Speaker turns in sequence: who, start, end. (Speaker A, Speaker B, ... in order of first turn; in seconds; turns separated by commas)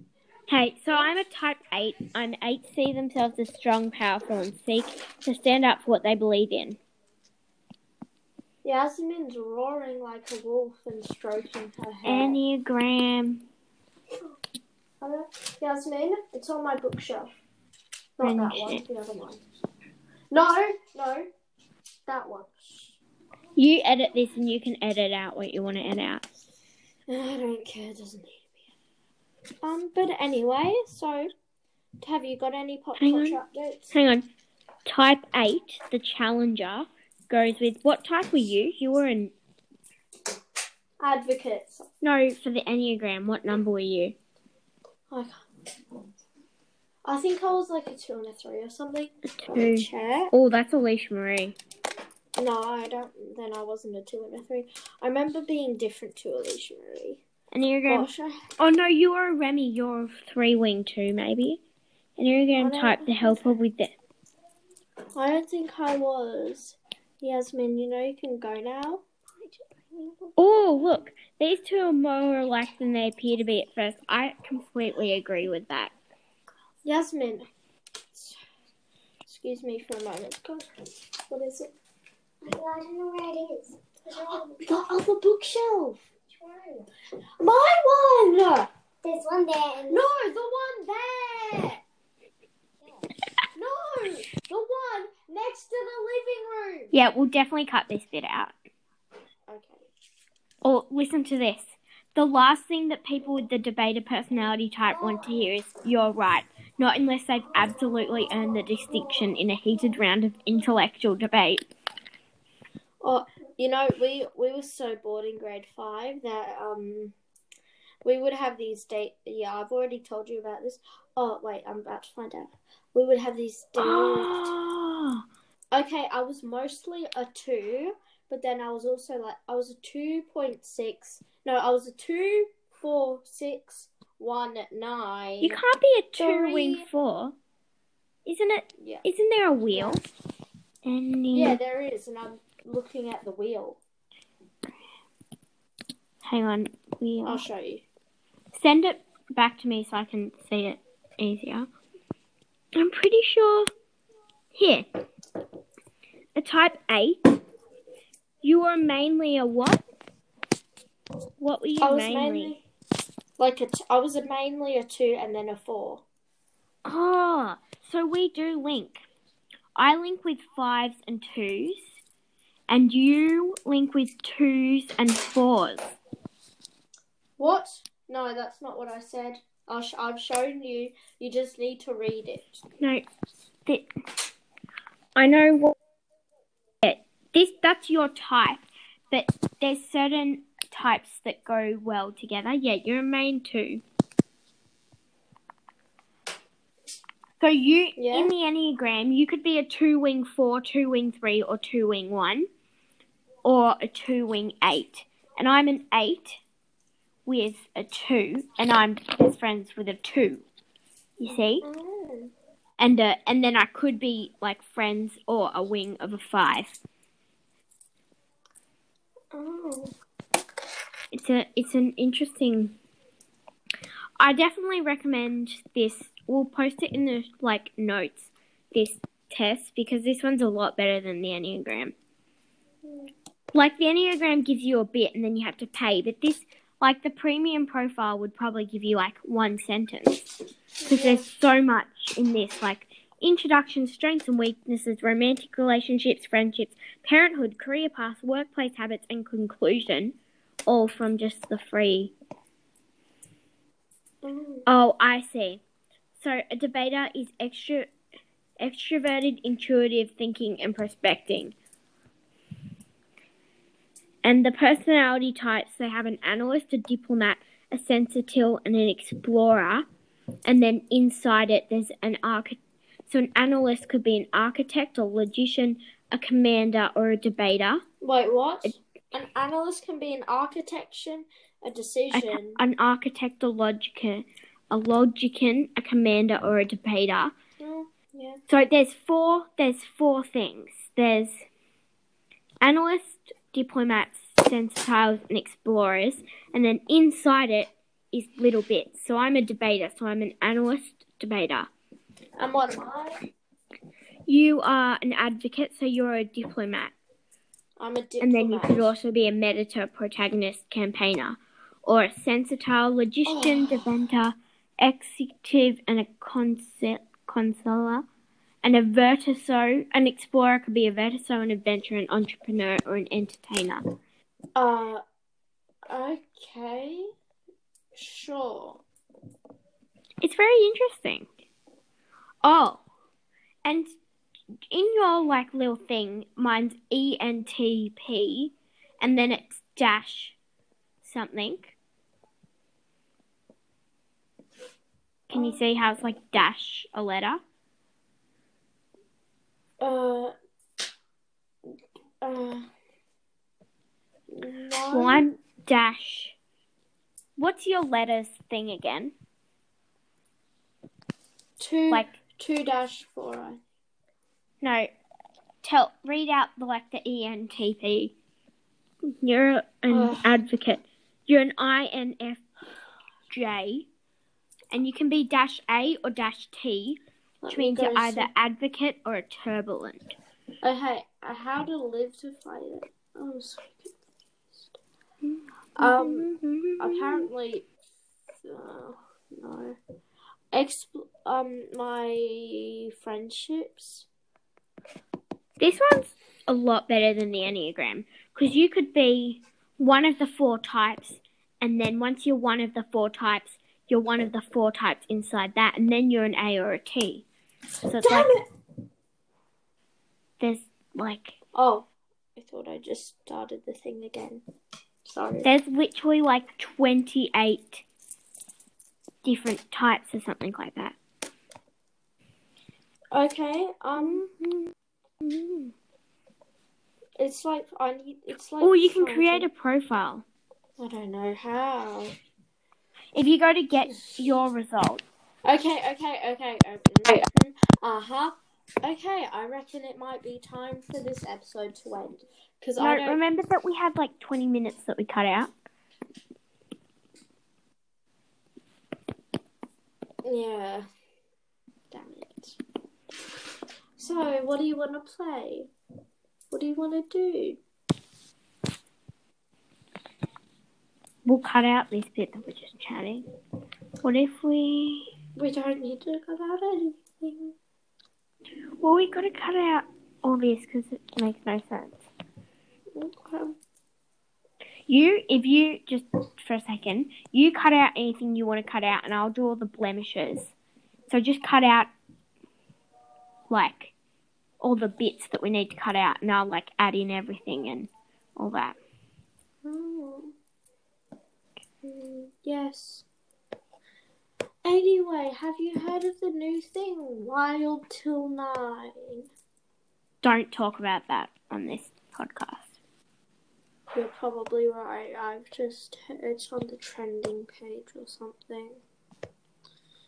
Speaker A: 0.5-6.8, Speaker B: 8.6-12.4, Speaker A: 12.1-13.4, Speaker B: 15.0-17.3, Speaker B: 18.2-19.4, Speaker A: 18.2-18.8, Speaker B: 20.3-21.3, Speaker B: 22.1-23.0, Speaker A: 23.6-26.4, Speaker B: 27.1-28.6, Speaker B: 29.6-31.3, Speaker B: 32.0-33.9, Speaker A: 33.0-33.4, Speaker A: 33.9-34.3, Speaker A: 34.9-39.3, Speaker B: 41.0-41.9, Speaker A: 42.0-44.1, Speaker B: 45.1-45.4, Speaker B: 47.0-50.3, Speaker A: 49.4-51.6, Speaker B: 52.4-57.2, Speaker A: 57.5-61.6, Speaker B: 57.9-58.4, Speaker A: 62.2-63.9, Speaker B: 62.6-63.4, Speaker B: 65.2-69.0, Speaker B: 69.9-70.3, Speaker A: 70.4-75.9, Speaker B: 76.8-77.5, Speaker B: 78.1-78.4, Speaker B: 79.3-80.7, Speaker B: 81.3-81.7, Speaker C: 82.4-84.5, Speaker B: 84.1-86.0, Speaker C: 86.4-86.8, Speaker B: 87.4-88.7, Speaker C: 89.0-90.0, Speaker B: 89.9-91.8, Speaker B: 93.5-96.9, Speaker A: 96.9-98.5, Speaker B: 99.5-99.8, Speaker A: 100.6-111.7, Speaker B: 113.0-117.2, Speaker B: 118.0-124.5, Speaker A: 123.8-125.2, Speaker B: 125.7-135.6, Speaker A: 135.4-137.4, Speaker B: 136.2-136.9, Speaker A: 138.2-140.0, Speaker B: 139.7-140.0, Speaker A: 140.8-141.6, Speaker B: 141.3-143.8, Speaker A: 146.2-147.4, Speaker B: 147.2-147.8, Speaker A: 148.5-151.7, Speaker A: 152.8-153.7, Speaker A: 154.5-154.9, Speaker A: 156.4-157.2, Speaker A: 158.4-159.8, Speaker A: 161.4-162.6, Speaker B: 161.8-162.6, Speaker B: 163.4-166.0, Speaker A: 166.8-169.0, Speaker A: 169.8-172.0, Speaker A: 172.7-175.9, Speaker B: 177.4-182.6, Speaker A: 182.8-183.1, Speaker A: 185.2-185.7, Speaker A: 186.8-193.8, Speaker A: 197.4-202.5, Speaker B: 198.0-198.3, Speaker A: 203.4-206.4, Speaker A: 207.3-210.4, Speaker A: 211.2-211.6, Speaker B: 211.3-212.3, Speaker A: 212.8-216.8, Speaker B: 219.3-220.0, Speaker A: 221.1-222.8, Speaker A: 224.2-231.9, Speaker A: 233.5-250.2, Speaker B: 240.8-241.3, Speaker A: 250.7-252.1, Speaker B: 254.2-254.7, Speaker A: 254.7-255.6, Speaker A: 256.2-257.9, Speaker A: 258.6-261.6, Speaker A: 264.2-269.9, Speaker A: 270.4-277.8, Speaker B: 278.0-282.6, Speaker A: 282.1-287.3, Speaker B: 287.6-288.4, Speaker A: 288.5-291.4, Speaker A: 292.6-301.7, Speaker B: 302.4-303.2, Speaker A: 304.3-306.9, Speaker B: 307.8-308.9, Speaker A: 308.2-318.1, Speaker B: 313.3-313.9, Speaker A: 318.6-323.9, Speaker B: 324.6-325.0, Speaker B: 325.9-327.1, Speaker B: 327.9-328.8, Speaker A: 330.2-331.3, Speaker A: 332.4-332.8, Speaker A: 333.6-333.9, Speaker A: 334.7-340.4, Speaker A: 341.0-341.7, Speaker A: 345.3-347.4, Speaker B: 349.8-350.3, Speaker B: 352.2-352.7, Speaker B: 354.3-355.2, Speaker A: 354.9-356.4, Speaker A: 357.4-359.1, Speaker B: 361.6-363.6, Speaker A: 364.6-364.9, Speaker A: 365.6-368.1, Speaker A: 369.1-372.4, Speaker B: 369.9-370.4, Speaker A: 373.3-373.9, Speaker A: 374.7-377.0, Speaker B: 377.4-378.3, Speaker A: 377.5-380.1, Speaker B: 380.6-383.9, Speaker A: 385.2-387.3, Speaker B: 385.8-387.7, Speaker B: 388.4-389.8, Speaker B: 390.5-394.1, Speaker A: 395.6-407.2, Speaker A: 407.9-408.4, Speaker B: 408.0-408.4, Speaker A: 410.4-411.4, Speaker B: 411.5-414.4, Speaker B: 415.1-415.5, Speaker A: 415.4-417.8, Speaker A: 419.2-421.0, Speaker B: 423.1-424.3, Speaker A: 424.0-425.7, Speaker B: 427.2-429.5, Speaker A: 428.6-430.2, Speaker B: 430.8-432.1, Speaker A: 433.1-435.0, Speaker B: 435.5-443.2, Speaker A: 442.8-445.5, Speaker B: 450.2-450.9, Speaker B: 451.9-452.6, Speaker B: 454.0-455.7, Speaker B: 456.5-457.6, Speaker A: 461.2-463.2, Speaker A: 464.0-465.1, Speaker B: 465.4-467.6, Speaker A: 468.8-472.0, Speaker B: 472.9-473.6, Speaker A: 474.9-480.5, Speaker A: 481.1-481.9, Speaker A: 483.5-483.9, Speaker A: 484.6-488.8, Speaker B: 489.6-490.3, Speaker B: 491.8-493.1, Speaker B: 494.6-499.3, Speaker A: 500.2-502.7, Speaker B: 503.9-508.8